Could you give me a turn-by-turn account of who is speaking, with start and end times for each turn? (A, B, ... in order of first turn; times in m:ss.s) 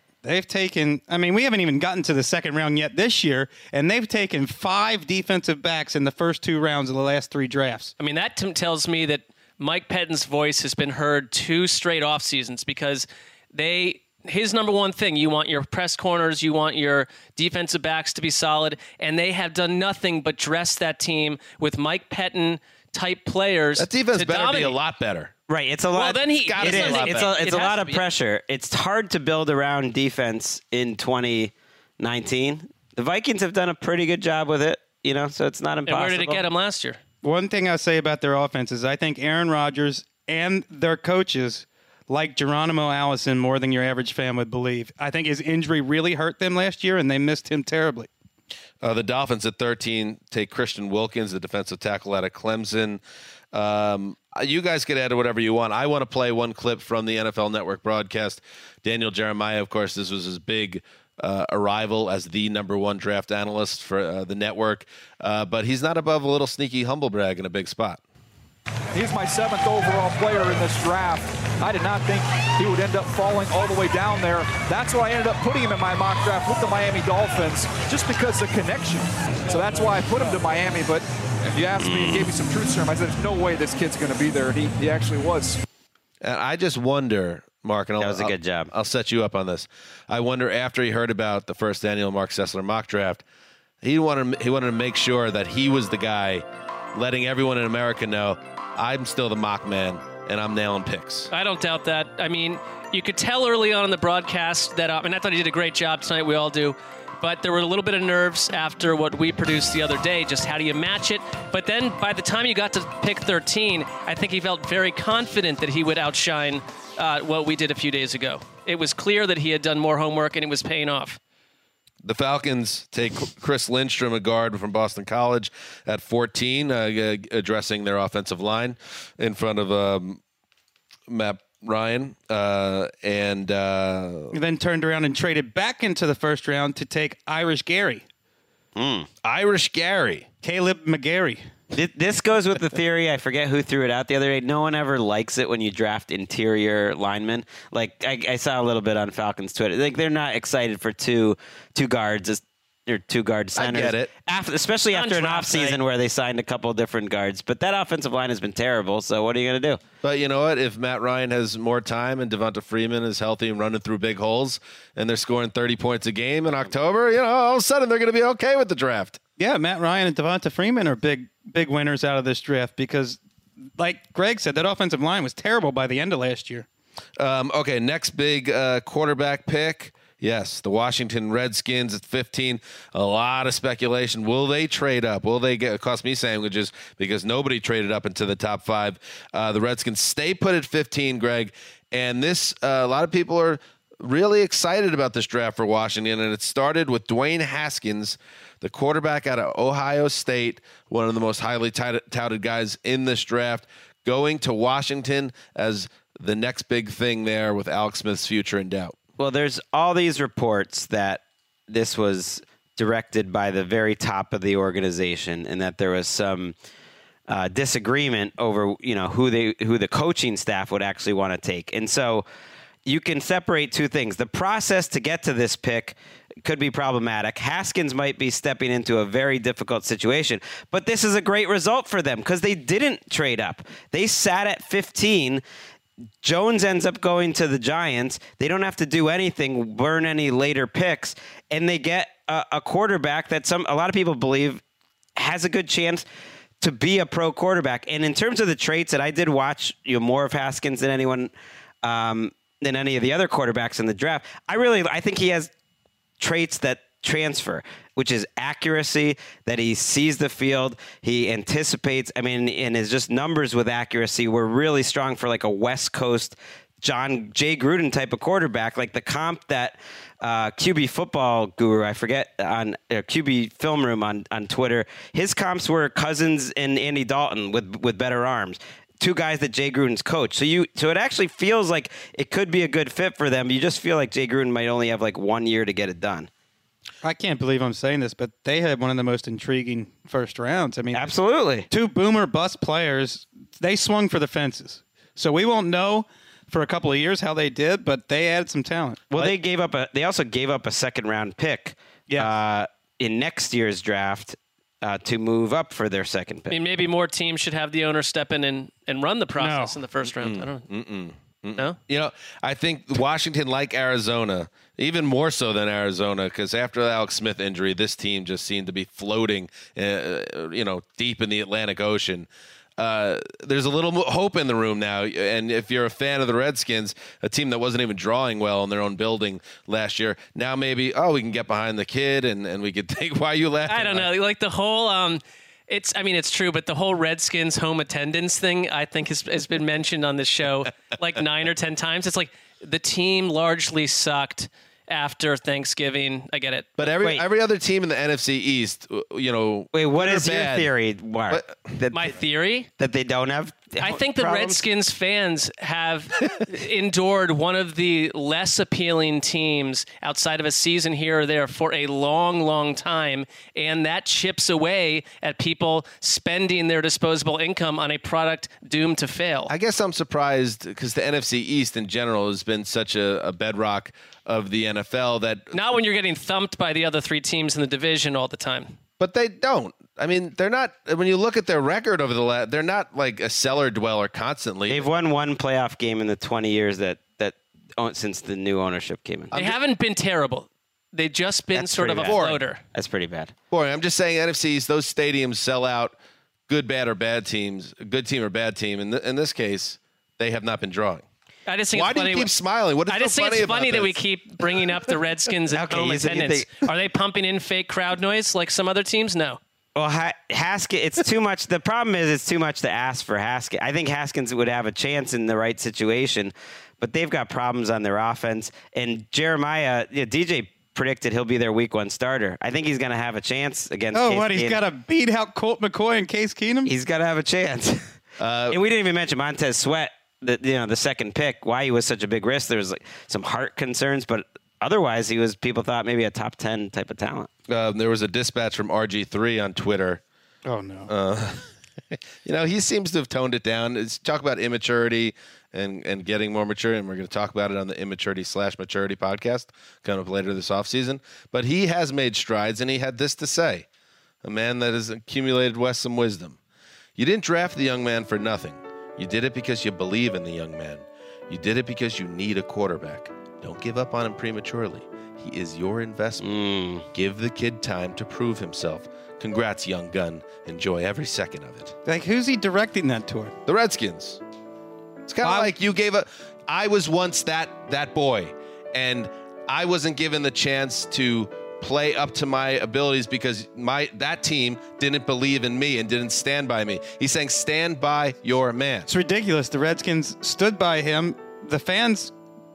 0:00.2-0:07.9 A
0:08.0-0:24.8 B
0:23.8-0:25.3 C
0:25.5-0:36.4 D
0:25.9-0:28.0 B
0:26.4-0:27.3 C
0:35.8-0:37.0 B
0:37.2-0:48.1 A
0:48.8-0:53.0 C
0:53.5-1:08.0 C
1:08.9-1:25.6 E
1:21.8-1:22.3 D
1:26.2-1:33.2 C
1:28.0-1:28.7 D
1:33.8-1:41.3 C
1:41.3-2:01.2 B
2:02.0-2:10.2 C
2:11.1-2:14.3 C
2:14.3-2:18.0 A
2:18.8-2:19.1 D
2:19.2-2:20.3 C
2:20.4-2:21.4 A
2:21.7-2:39.8 D
2:33.5-2:34.1 C
2:34.9-2:35.8 B
2:40.0-2:49.2 C
2:49.4-2:53.2 A
2:53.8-2:56.7 A
2:57.2-3:29.0 C
3:29.2-3:36.5 D
3:37.3-3:42.2 D
3:42.8-3:55.4 D
3:56.2-4:04.6 D
4:05.2-4:06.0 D
4:06.6-4:11.3 D
4:11.8-4:15.5 D
4:16.2-4:46.3 D
4:47.0-4:51.1 A
4:50.9-4:51.7 D
4:51.7-4:59.0 A
4:59.1-5:06.6 D
5:06.5-5:10.6 B
5:09.4-5:09.8 A
5:10.1-5:34.1 C
5:33.7-5:46.7 B
5:46.8-5:50.7 C
5:46.8-5:47.2 D
5:49.7-5:52.1 D
5:51.3-5:51.7 C
5:51.9-5:52.7 B
5:52.8-5:54.6 D
5:53.8-6:09.5 B
6:09.5-6:15.5 C
6:15.5-6:18.8 B
6:19.0-6:24.8 C
6:24.7-6:29.3 D
6:29.3-6:29.6 C
6:29.3-6:32.6 B
6:31.5-6:32.4 C
6:32.7-6:33.3 D
6:33.5-6:35.9 C
6:36.5-6:41.0 C
6:41.5-6:42.3 B
6:41.7-6:44.7 C
6:42.9-6:49.4 B
6:45.5-6:46.5 D
6:49.7-7:04.6 D
7:03.9-7:06.7 A
7:06.6-7:07.8 D
7:08.2-7:08.6 C
7:08.5-7:17.3 D
7:17.5-7:20.0 C
7:20.4-7:20.9 A
7:20.9-7:21.4 C
7:22.2-7:33.6 C
7:34.2-7:36.4 C
7:37.0-7:46.2 C
7:46.2-7:46.8 D
7:46.9-7:51.8 C
7:51.8-7:53.3 A
7:53.5-7:54.2 C
7:55.1-8:08.9 C
7:55.2-7:55.5 A
8:08.9-8:12.1 A